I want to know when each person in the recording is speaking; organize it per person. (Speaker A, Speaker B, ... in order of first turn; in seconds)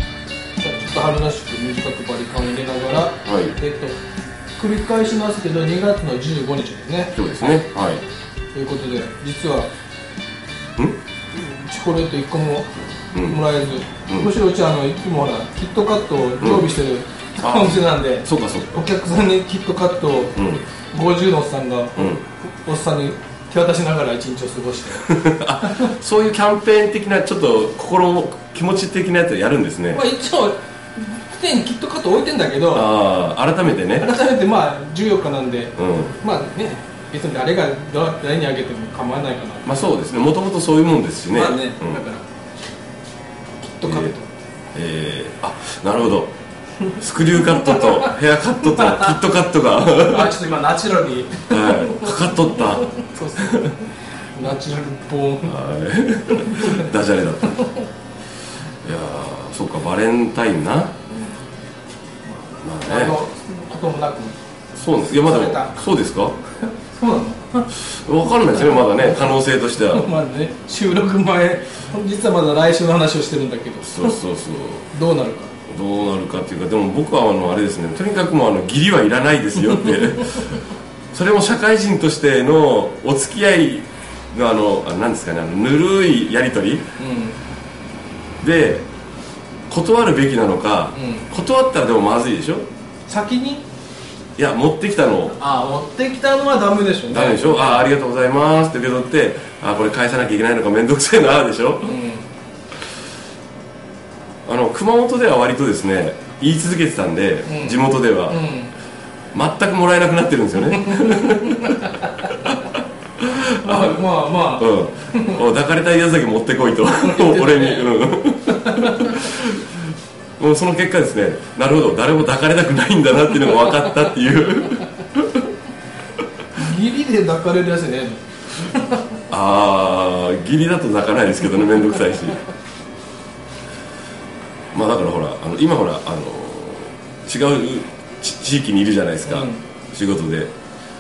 Speaker A: 0.6-4.0, 4.6-7.6, 8.6-9.7, 11.3-12.7, 13.2-20.4, 20.9-25.1, 25.6-25.9, 29.9-32.9, 34.0-39.7, 41.3-42.2, 43.6-44.3, 47.4-48.1, 48.6-49.2, 50.0-55.6, 56.3-56.9, 62.3-64.4, 65.1-65.8, 66.7-67.7, 68.6-69.3, 69.9-74.2, 74.9-75.5, 87.0-87.4, 91.0-91.2, 93.1-93.7, 95.4-97.9, 101.8-102.3, 107.5-108.7, 110.8-112.5, 113.6-115.4, 117.0-119.3, 126.5-129.2, 139.3-139.6
Speaker B: 3.3-3.6, 7.1-8.0, 13.1-13.4, 16.4-16.7, 17.4-18.9, 20.4-20.6, 22.0-22.2, 25.0-30.0, 32.7-34.1, 35.8-36.2, 39.6-42.0, 43.8-44.1, 44.7-46.3, 46.9-50.4, 51.5-53.7, 55.5-57.6, 58.8-61.0, 62.6-63.2, 64.7-66.4, 67.7-70.1, 73.8-74.9, 75.7-86.9, 88.4-88.9, 89.7-92.7, 94.4-95.4, 97.1-102.0, 104.5-108.4, 109.3-114.0, 114.6-125.5, 129.3-132.4, 134.7-140.5